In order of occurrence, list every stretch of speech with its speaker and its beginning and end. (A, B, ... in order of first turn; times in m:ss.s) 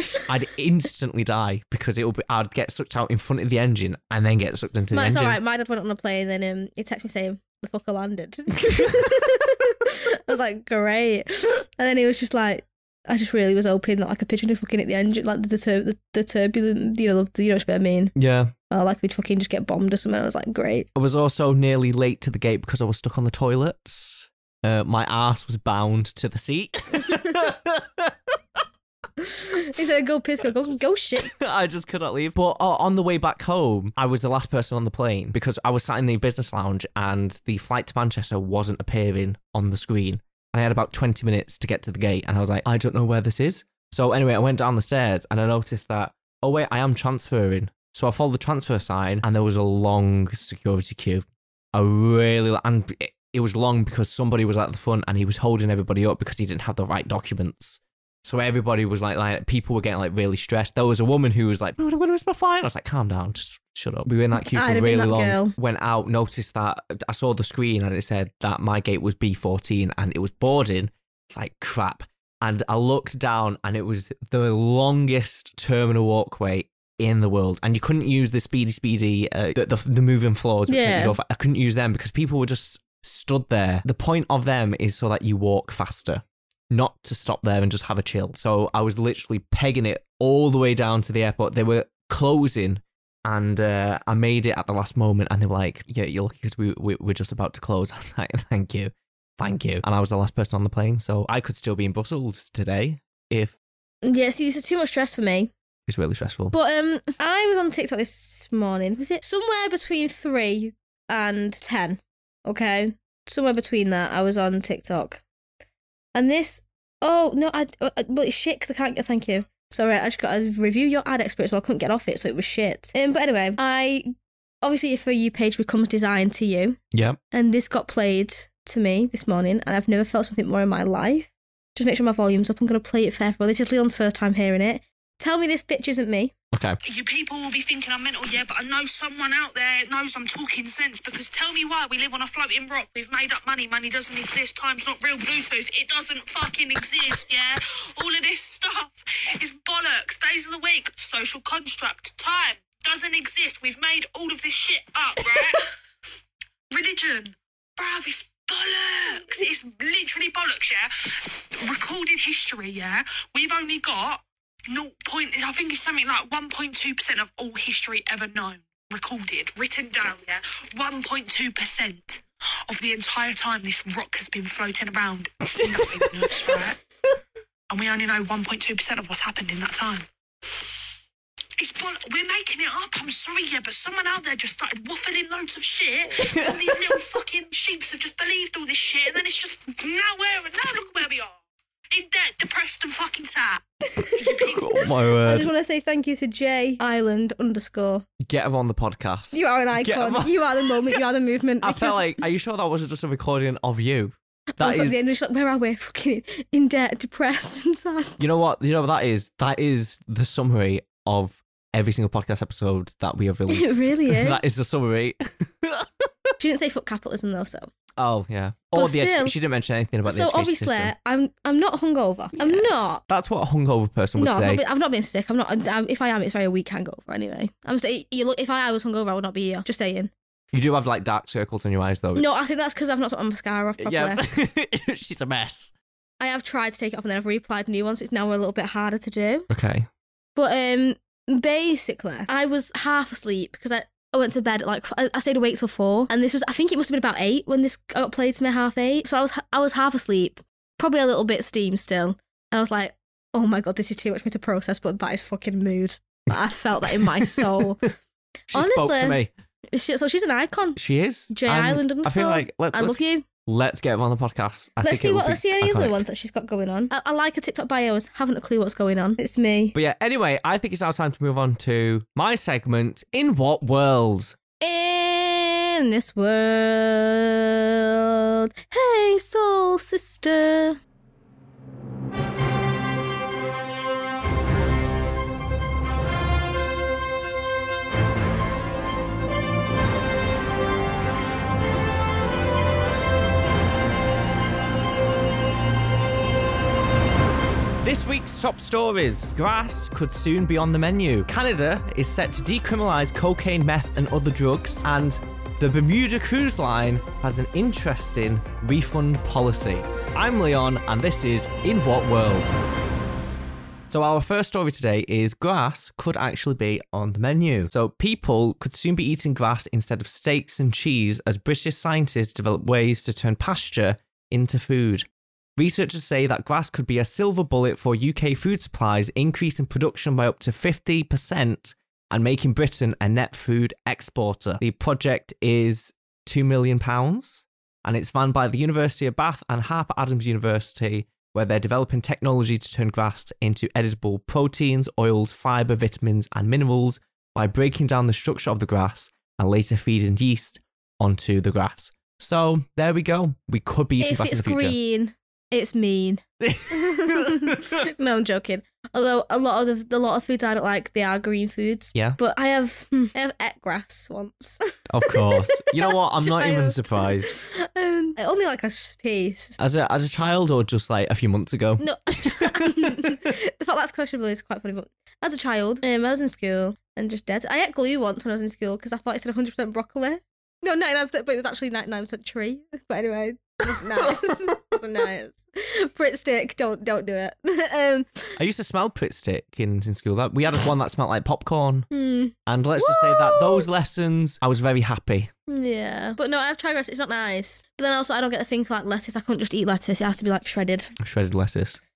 0:00.2-0:05.4 A
0:04.9-0:18.1 B
0:18.2-0:18.5 A
0:18.7-0:20.9 B
0:20.9-0:28.3 A
0:29.2-0:31.3 B
0:31.2-1:43.6 A
1:04.4-1:05.5 B
1:20.7-1:21.2 B
1:44.0-1:45.5 B
1:45.9-1:46.5 A
1:46.5-1:55.2 B
1:56.1-2:06.8 B
2:06.9-2:07.2 A
2:07.3-2:16.3 B
2:16.5-2:16.8 A
2:16.8-2:35.7 C
2:36.7-2:56.8 C
2:55.6-2:56.4 A
2:57.7-3:00.1 C
3:01.6-3:14.7 C
3:06.2-3:06.6 A
3:13.9-3:14.5 B
3:14.4-3:15.5 A
3:15.2-3:18.0 B
3:18.2-3:21.0 A
3:19.3-3:22.1 B
3:21.6-3:25.0 A
3:24.6-3:28.2 B
3:28.2-3:36.1 A
3:33.5-3:34.4 B
3:36.4-3:37.7 B
3:38.0-3:40.9 A
3:38.7-3:39.3 B
3:40.0-3:43.0 B
3:42.4-3:44.6 A
3:44.2-3:50.1 B
3:50.5-3:52.3 A
3:52.1-3:54.2 B
3:53.8-3:55.7 A
3:56.2-3:59.5 B
3:59.5-3:59.9 A
4:00.4-4:17.8 B
4:17.0-4:17.5 A
4:18.5-4:19.3 A
4:18.5-4:19.2 B
4:19.7-4:20.8 B
4:20.8-4:26.0 A
4:21.3-4:23.2 B
4:24.8-4:29.8 B
4:29.7-4:34.4 A
4:34.6-4:40.8 B
4:57.8-5:12.5 A
5:13.9-5:54.8 A
5:54.0-6:09.6 B
5:56.4-5:57.8 A
6:04.9-6:07.3 A
6:09.6-6:13.2 A
6:11.8-6:28.4 B
6:28.4-6:31.9 A
6:31.9-6:33.6 B
6:32.4-6:35.3 A
6:35.5-6:40.9 B
6:41.0-6:41.8 A